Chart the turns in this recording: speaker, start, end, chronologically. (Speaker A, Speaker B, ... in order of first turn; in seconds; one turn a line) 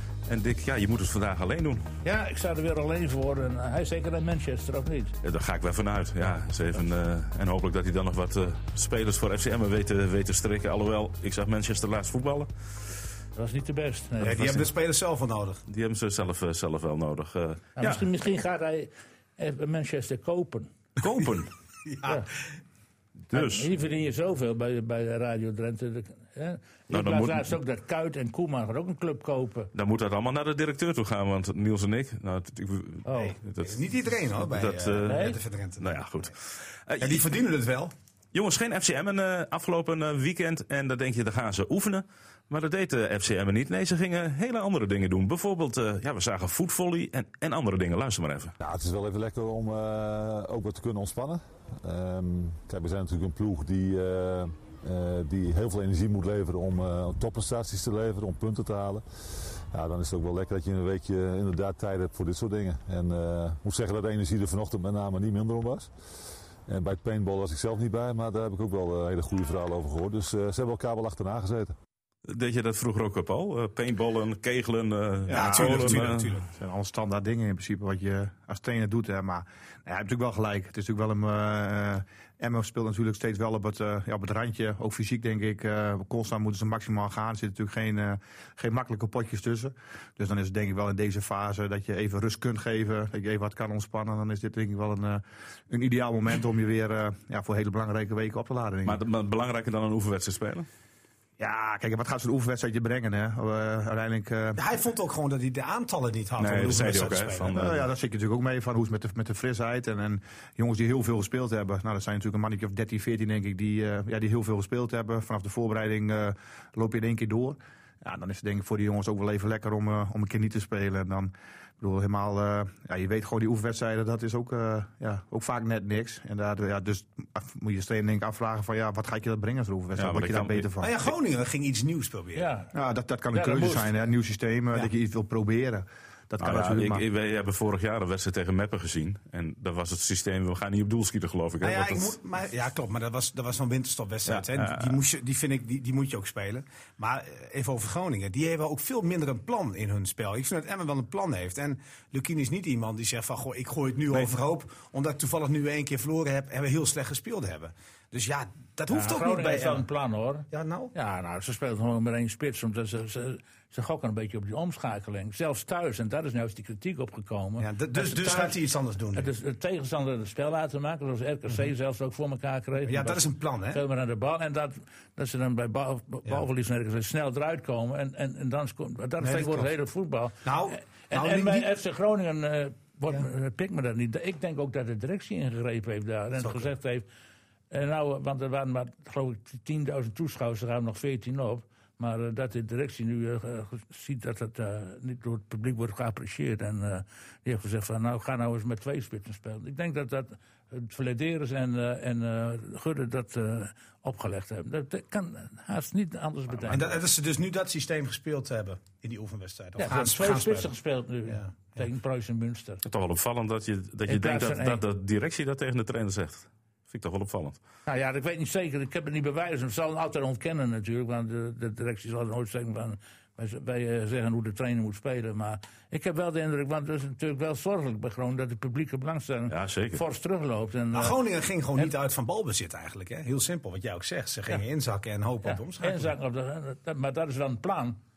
Speaker A: 0.3-1.9
Speaker B: 2.0-5.1
Speaker A: 5.2-12.5
Speaker B: 13.3-14.7
Speaker C: 14.2-15.6
Speaker A: 15.7-18.0
Speaker B: 17.8-20.7
Speaker A: 21.0-21.5
Speaker C: 21.9-22.2
Speaker A: 23.3-23.7
Speaker B: 23.3-29.7
Speaker A: 26.9-27.6
Speaker A: 29.7-35.3
Speaker B: 33.0-33.4
Speaker C: 33.1-36.1
Speaker B: 35.0-35.4
Speaker A: 35.8-37.3
Speaker C: 37.0-37.9
Speaker A: 38.3-48.5
Speaker D: 48.6-59.0
Speaker D: 59.7-65.9
Speaker D: 66.7-71.7
Speaker A: 72.3-76.4
Speaker E: 75.3-99.0
Speaker C: 75.3-76.5
Speaker A: 98.8-100.7
Speaker E: 101.4-104.6
Speaker C: 104.6-107.5
Speaker A: 106.4-107.8
Speaker E: 107.5-131.0
Speaker A: 129.9-130.7
Speaker C: 130.8-132.5
Speaker B: 132.3-132.7
Speaker E: 132.7-137.0
Speaker B: 133.3-133.9
Speaker A: 136.4-142.2
Speaker C: 141.6-159.8
Speaker A: 144.2-145.0
Speaker B: 158.9-168.6
Speaker C: 160.5-160.9
Speaker C: 167.6-169.3
Speaker B: 169.1-187.1
Speaker C: 172.8-173.8
Speaker C: 179.2-179.7
Speaker C: 180.4-181.7
Speaker C: 186.4-186.7
Speaker B: 187.7-207.0
Speaker C: 206.6-210.7
Speaker B: 209.8-212.8
Speaker C: 211.3-211.9
Speaker A: 212.8-217.6
Speaker B: 214.1-214.8
Speaker B: 217.9-231.2
Speaker A: 229.5-230.0
Speaker C: 230.9-236.1
Speaker B: 235.4-238.0